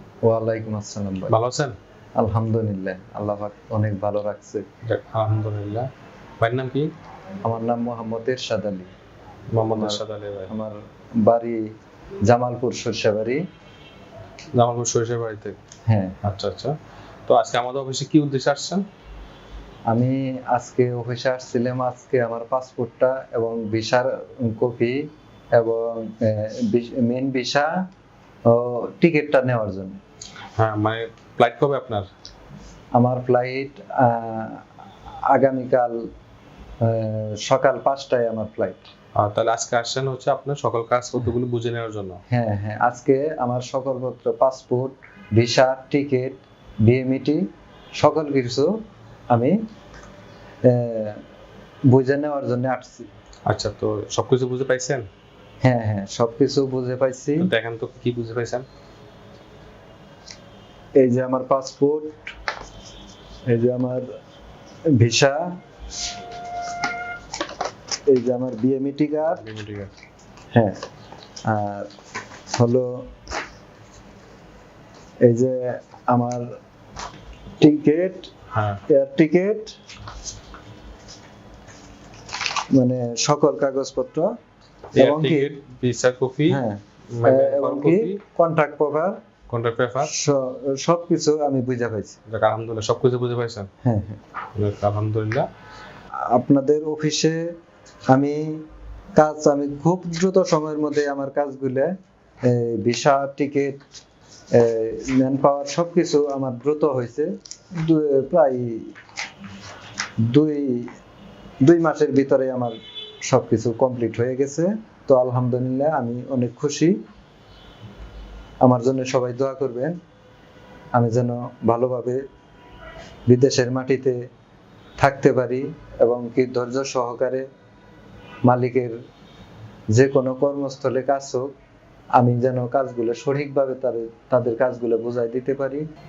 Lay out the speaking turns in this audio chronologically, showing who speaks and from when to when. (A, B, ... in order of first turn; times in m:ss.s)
0:00.2-0:01.3 A
0:01.3-0:01.8 B
0:02.2-0:04.7 A
0:04.8-0:05.9 B
0:06.4-0:06.9 B
0:07.4-0:08.9 A
0:09.5-0:10.5 B
0:09.7-0:11.6 A
0:12.3-0:13.4 A
0:14.5-0:15.6 B
0:15.9-0:16.2 A
0:16.2-0:16.8 B
0:17.3-0:18.8 B
0:19.9-0:27.7 A
0:28.5-0:30.0 A
0:30.6-0:32.1 B
0:32.9-0:34.6 A
0:35.3-0:36.0 A
0:36.8-0:38.9 A
0:39.2-0:42.2 B
0:42.3-0:47.4 A
0:48.0-0:48.8 A
0:49.3-0:49.6 A
0:50.6-0:51.2 A
0:51.9-0:53.1 A
0:53.5-0:55.1 B
0:55.6-0:57.5 A
0:57.4-0:58.7 B
1:01.0-1:02.3 A
1:03.5-1:04.1 A
1:05.0-1:05.6 A
1:08.1-1:09.4 A
1:09.3-1:09.9 B
1:10.5-1:10.8 A
1:11.4-1:11.9 A
1:12.5-1:13.1 A
1:15.2-1:16.5 A
1:17.6-1:18.3 A
1:18.5-1:18.8 B
1:18.9-1:19.8 A
1:22.7-1:24.3 A
1:24.9-1:26.6 B
1:25.0-1:25.6 A
1:26.5-1:29.2 A
1:27.1-1:28.2 B
1:29.5-1:30.1 B
1:30.0-1:32.2 A
1:32.3-1:33.7 B
1:33.8-1:34.2 A
1:34.6-1:35.5 B
1:36.3-1:37.5 A
1:38.1-1:41.9 A
1:42.4-1:43.8 A
1:44.5-1:48.9 A
1:50.3-1:50.9 A
1:51.6-1:57.0 A
1:58.6-2:00.0 A
2:00.9-2:02.2 A
2:03.3-2:04.2 A
2:05.0-2:07.5 A
2:08.5-2:09.0 A
2:09.9-2:11.5 A
2:12.2-2:15.8 A